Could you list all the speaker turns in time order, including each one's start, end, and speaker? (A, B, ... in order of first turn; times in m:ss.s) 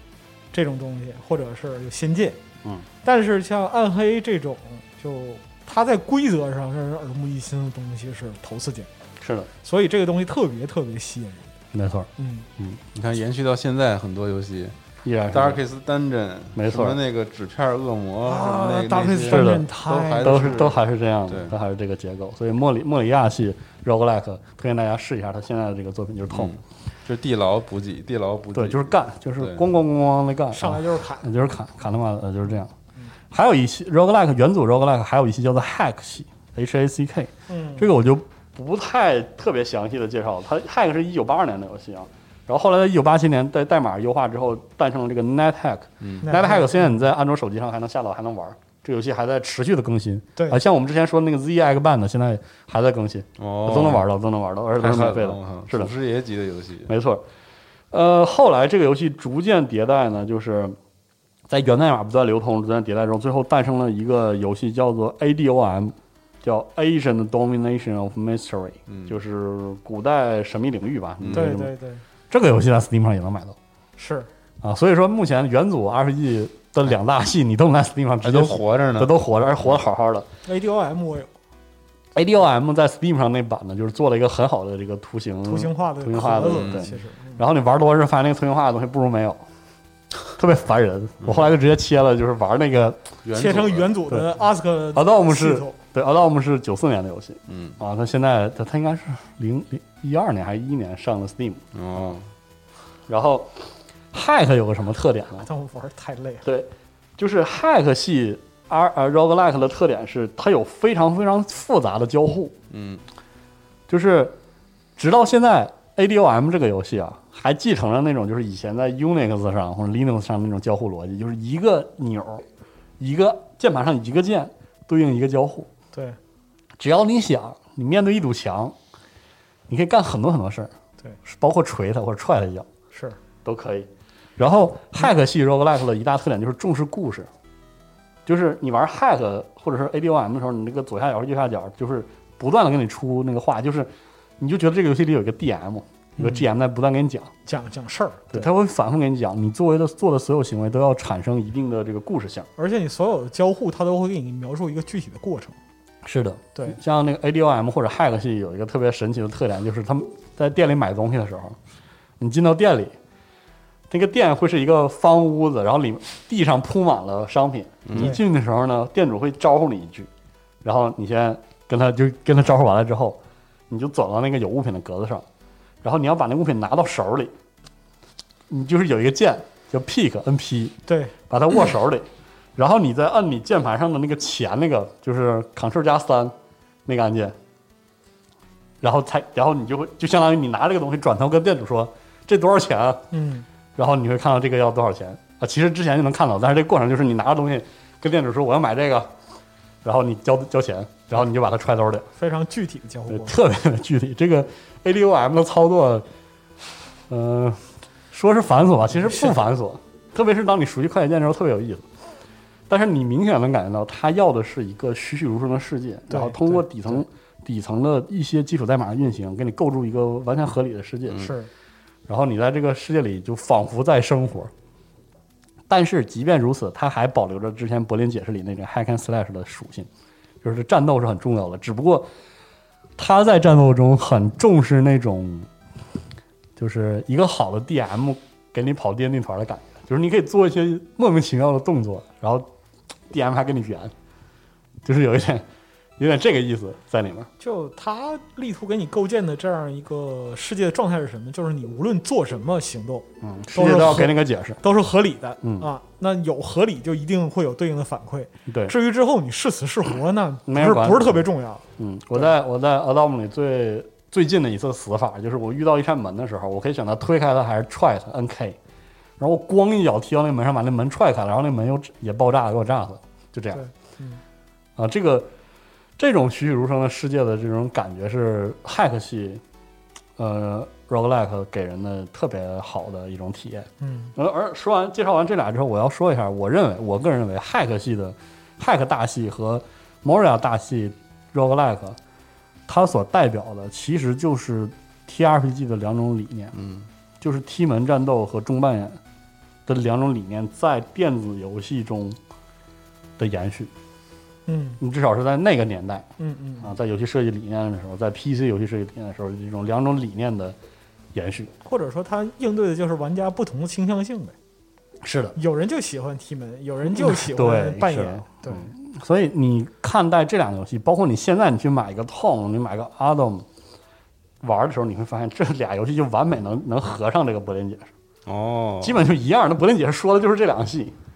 0:00.5-0:02.4 A
0:03.0-0:08.9 A
0:09.2-0:09.5 B
0:09.6-0:11.5 A
0:11.7-0:12.8 B
0:12.2-0:12.5 A
0:12.9-0:14.8 C
0:15.0-0:15.6 B
0:15.3-0:21.5 C
0:16.5-0:17.0 B
0:18.2-0:20.6 A
0:19.3-0:19.6 B
0:20.2-0:26.6 B
0:26.3-0:29.6 C
0:28.5-0:32.7 B
0:30.5-0:31.5 A
0:33.3-0:55.9 B
0:37.5-0:37.9 A
0:46.0-0:46.2 C
0:46.2-0:47.0 A
0:53.4-0:54.0 C
0:54.8-0:56.9 C
0:56.9-0:57.2 B
0:57.9-1:00.8 B
1:01.5-1:11.7 B
1:08.9-1:09.2 C
1:11.2-1:11.5 C
1:11.3-1:12.0 A
1:12.3-1:13.6 B
1:14.0-1:14.3 A
1:14.6-1:20.3 B
1:18.2-1:19.8 C
1:20.4-1:21.3 A
1:22.1-1:29.4 B
1:25.4-1:27.4 A
1:26.4-1:26.9 C
1:30.4-1:33.0 B
1:31.2-1:31.5 C
1:33.2-1:34.0 C
1:33.3-1:35.8 A
1:34.9-1:41.6 B
1:37.5-1:37.8 C
1:41.7-1:42.3 C
1:43.1-1:43.5 B
1:44.1-1:45.5 B
1:45.4-1:46.4 A
1:46.4-1:52.5 B
1:52.7-1:53.0 C
1:53.9-1:54.3 B
1:55.0-2:02.4 B
2:03.0-2:05.7 B
2:06.8-2:08.7 B
2:09.7-2:10.7 B
2:11.2-2:12.7 B
2:12.9-2:13.2 A
2:13.4-2:17.3 B
2:18.2-2:27.3 B
2:26.2-2:26.4 A
2:27.4-2:28.5 A
2:28.3-2:32.5 B
2:32.6-2:35.6 A
2:36.0-2:41.6 B
2:42.2-2:42.9 B
2:43.9-2:50.1 B
2:47.8-2:48.2 C
2:50.6-2:53.2 B
2:53.7-2:55.2 B
2:55.8-2:57.3 B
2:58.5-3:00.8 B
3:00.9-3:01.1 A
3:01.3-3:06.3 B
3:06.8-3:07.3 B
3:08.8-3:13.0 B
3:13.1-3:13.4 A
3:13.8-3:19.1 B
3:19.8-3:22.1 B
3:22.2-3:23.3 A
3:23.1-3:26.0 B
3:27.1-3:31.8 B
3:29.0-3:29.4 A
3:32.7-3:41.3 B
3:36.1-3:37.0 A
3:41.1-3:41.5 A
3:42.1-3:44.5 B
3:45.7-3:49.9 B
3:50.4-3:52.1 B
3:53.0-3:55.5 B
3:56.6-4:02.5 B
4:03.1-4:03.9 B
4:04.8-4:05.4 B
4:06.0-4:07.3 B
4:07.4-4:22.3 A
4:13.2-4:14.6 B
4:15.4-4:15.7 B
4:18.5-4:18.7 B
4:20.5-4:21.2 B
4:21.8-4:28.6 B
4:29.2-4:33.6 B
4:33.5-4:34.2 A
4:34.8-4:35.3 B
4:36.0-4:39.4 B
4:40.2-4:52.0 B
4:43.8-4:44.1 A
4:52.7-4:56.5 B
4:56.5-4:56.9 C
4:57.2-4:59.0 B
4:59.7-5:02.2 B
5:03.2-5:03.7 B
5:04.5-5:04.8 A
5:04.8-5:06.1 B
5:06.2-5:06.7 A
5:06.6-5:10.6 B
5:11.1-5:11.5 B
5:11.6-5:14.3 A
5:15.0-5:15.4 B
5:15.4-5:18.7 A
5:16.9-5:23.4 B
5:24.4-5:27.9 B
5:28.2-5:29.0 C
5:28.8-5:30.9 B